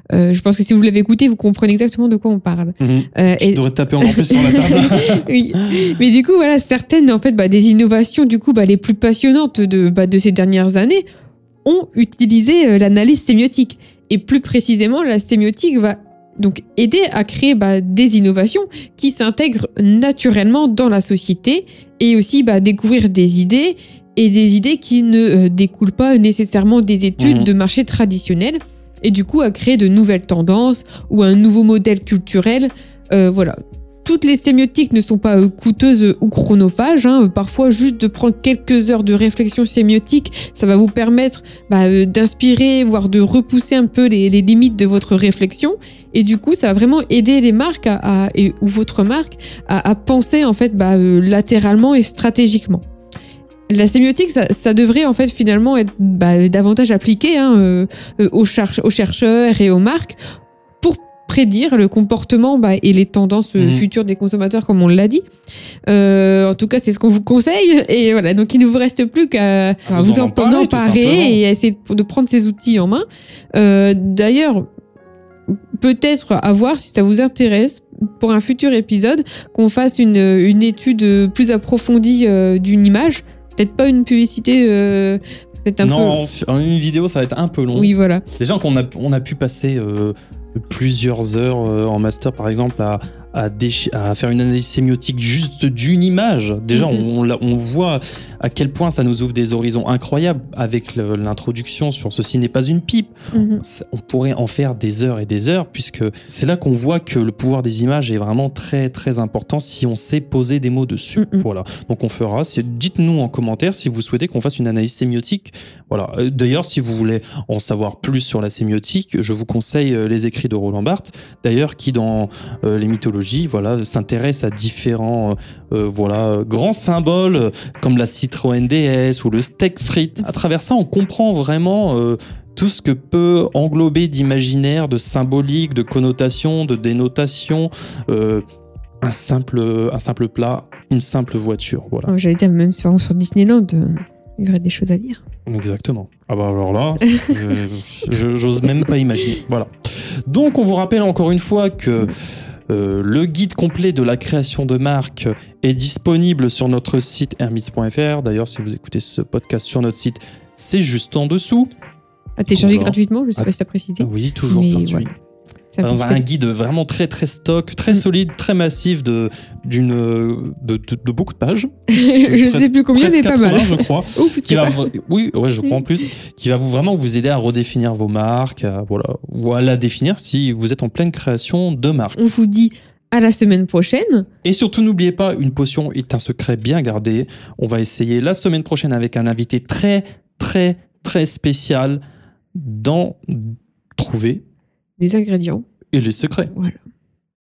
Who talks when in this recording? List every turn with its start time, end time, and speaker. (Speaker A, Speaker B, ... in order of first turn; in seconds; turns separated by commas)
Speaker A: 0.1-11.0, Speaker B: 2.8-5.9, Speaker A: 11.6-52.8, Speaker B: 27.2-27.5, Speaker A: 53.7-60.2, Speaker A: 60.8-65.2, Speaker B: 63.6-63.8, Speaker A: 65.9-74.7, Speaker B: 69.9-71.4, Speaker A: 75.8-86.2, Speaker B: 85.8-138.4, Speaker A: 87.7-88.2, Speaker A: 96.7-97.0, Speaker A: 103.3-103.6, Speaker A: 111.2-111.4, Speaker B: 139.0-142.1, Speaker A: 142.1-145.2, Speaker B: 145.5-152.1, Speaker B: 152.7-161.7, Speaker A: 162.4-165.1, Speaker B: 162.5-165.1, Speaker A: 165.7-166.2, Speaker B: 165.8-171.7, Speaker A: 171.9-174.9, Speaker B: 172.2-182.2, Speaker A: 182.2-184.3, Speaker B: 184.4-192.0, Speaker B: 192.5-194.4, Speaker A: 195.0-195.6, Speaker B: 195.9-196.5, Speaker A: 196.5-196.8